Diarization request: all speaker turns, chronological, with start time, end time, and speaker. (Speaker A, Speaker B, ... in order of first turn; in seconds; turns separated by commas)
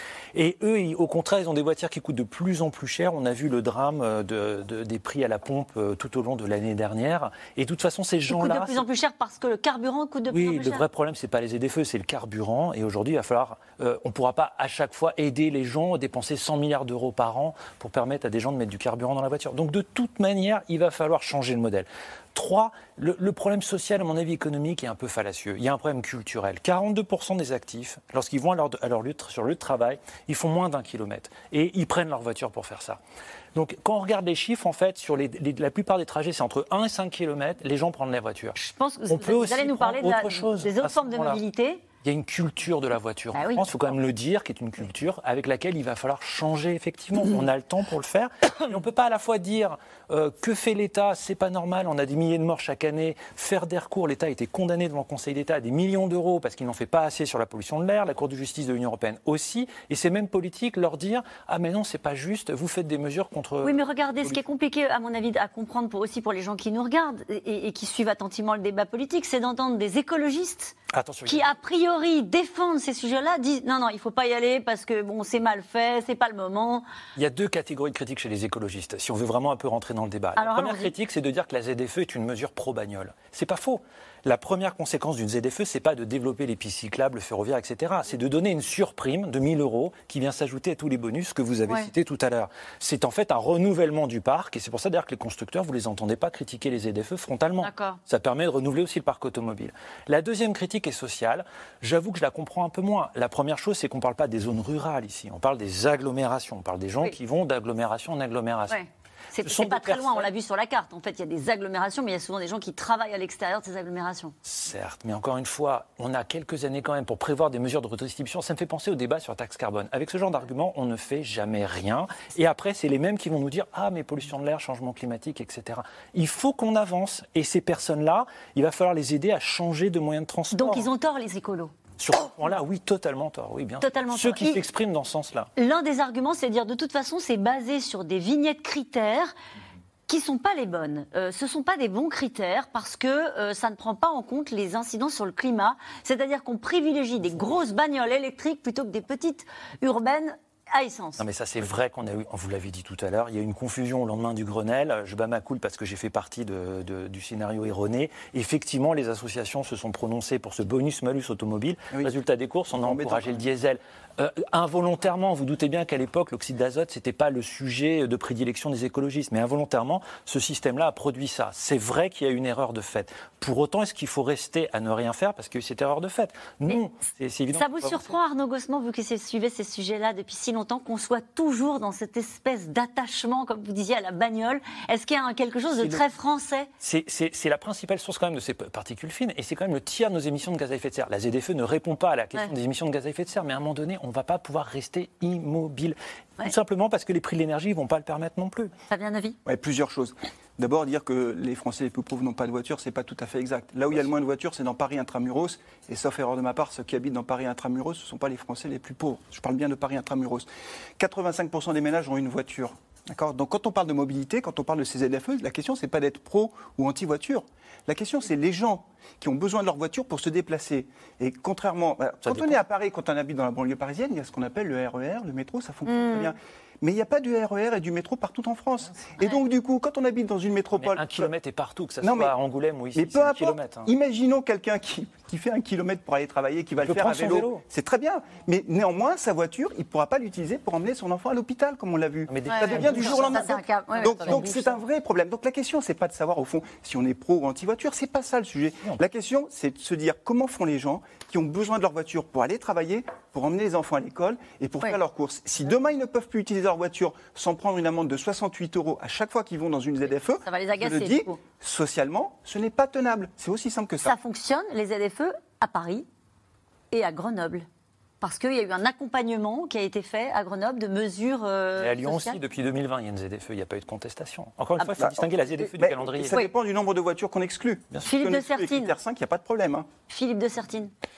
Speaker A: 0.3-8.8, Speaker B: 8.3-10.8, Speaker A: 10.3-33.0, Speaker A: 33.5-41.4, Speaker B: 38.6-41.8, Speaker A: 42.0-64.4, Speaker B: 43.4-43.7, Speaker B: 63.6-76.9, Speaker A: 70.9-71.5, Speaker A: 77.2-108.8, Speaker B: 80.4-80.9, Speaker B: 97.6-98.0, Speaker B: 108.7-114.3, Speaker A: 109.4-110.3, Speaker A: 114.5-130.9, Speaker B: 130.5-131.7, Speaker A: 132.0-135.5, Speaker B: 133.8-134.6, Speaker B: 135.6-139.3, Speaker B: 140.1-151.2, Speaker A: 151.2-178.2, Speaker C: 162.7-163.4, Speaker B: 177.5-186.7, Speaker A: 185.8-186.0, Speaker A: 186.8-198.7, Speaker B: 198.9-199.4, Speaker C: 199.5-210.5, Speaker C: 211.0-231.3, Speaker A: 222.2-222.6, Speaker B: 225.9-226.3, Speaker A: 230.7-233.9, Speaker C: 232.0-232.3, Speaker C: 232.9-264.1, Speaker A: 236.8-237.6, Speaker A: 242.3-244.6, Speaker B: 242.5-244.8, Speaker B: 260.4-261.4, Speaker B: 264.0-266.1, Speaker B: 266.9-267.7, Speaker B: 268.2-272.4, Speaker A: 271.8-276.4, Speaker C: 275.0-279.9, Speaker B: 278.0-278.9, Speaker B: 280.1-280.9